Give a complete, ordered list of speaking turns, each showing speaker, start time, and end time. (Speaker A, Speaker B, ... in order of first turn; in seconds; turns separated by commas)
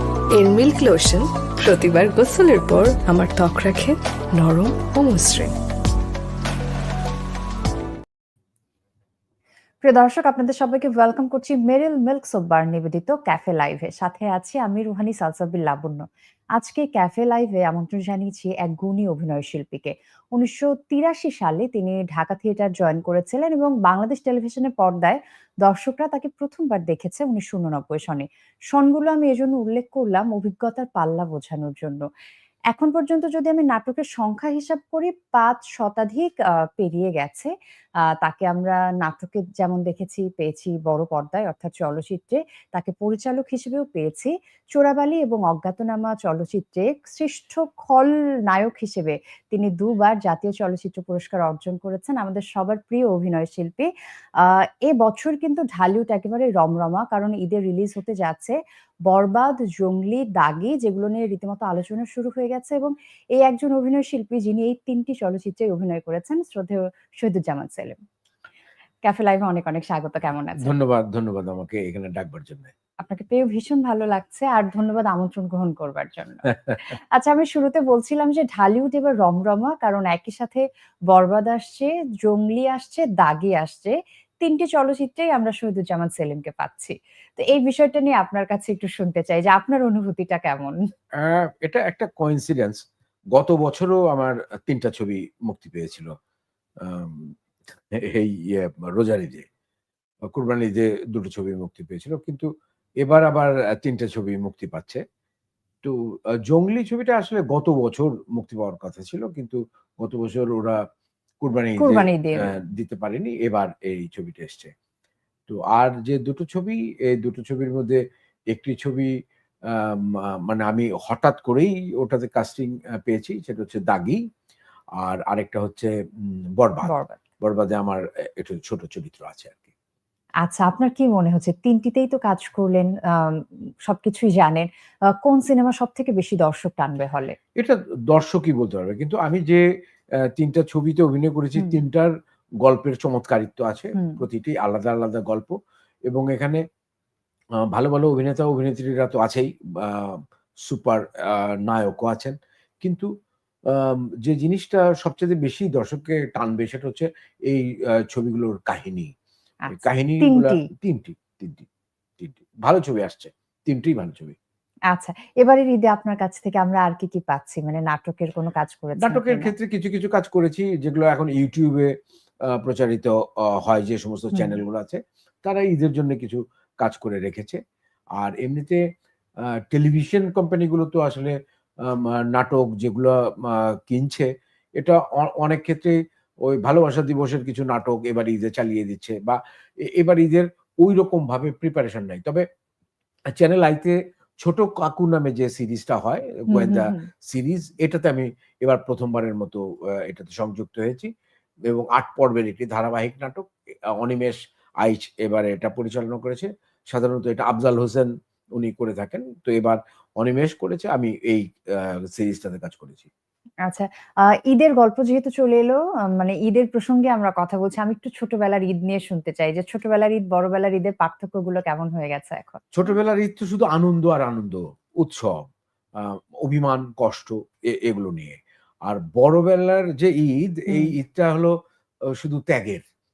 Speaker A: 0.3-5.5, Speaker B: 9.8-16.0, Speaker B: 16.6-32.0, Speaker B: 32.7-37.5, Speaker B: 38.0-53.9, Speaker B: 54.4-68.0, Speaker B: 69.0-70.7, Speaker C: 70.6-72.7, Speaker B: 73.0-90.8, Speaker C: 91.2-92.8, Speaker C: 93.3-96.1, Speaker C: 96.8-99.5, Speaker C: 100.3-102.5, Speaker C: 103.0-105.0, Speaker C: 105.8-110.8, Speaker C: 111.4-114.7, Speaker B: 111.8-112.5, Speaker C: 115.5-119.1, Speaker C: 119.7-124.2, Speaker C: 125.0-125.9, Speaker C: 126.6-129.6, Speaker B: 126.9-127.2, Speaker B: 130.4-134.7, Speaker B: 135.2-137.3, Speaker C: 137.6-139.6, Speaker C: 140.3-145.5, Speaker B: 143.9-144.2, Speaker C: 146.1-146.6, Speaker C: 147.7-153.1, Speaker C: 153.7-159.1, Speaker B: 159.7-160.7, Speaker C: 159.7-161.7, Speaker C: 162.2-164.3, Speaker B: 164.9-169.5, Speaker C: 169.0-177.6, Speaker C: 178.2-178.8, Speaker C: 179.4-192.4, Speaker C: 193.3-201.1, Speaker B: 196.5-197.0, Speaker C: 201.7-213.1, Speaker B: 213.6-222.9, Speaker C: 222.7-225.4, Speaker C: 225.9-231.5, Speaker B: 230.7-230.9, Speaker C: 232.1-232.8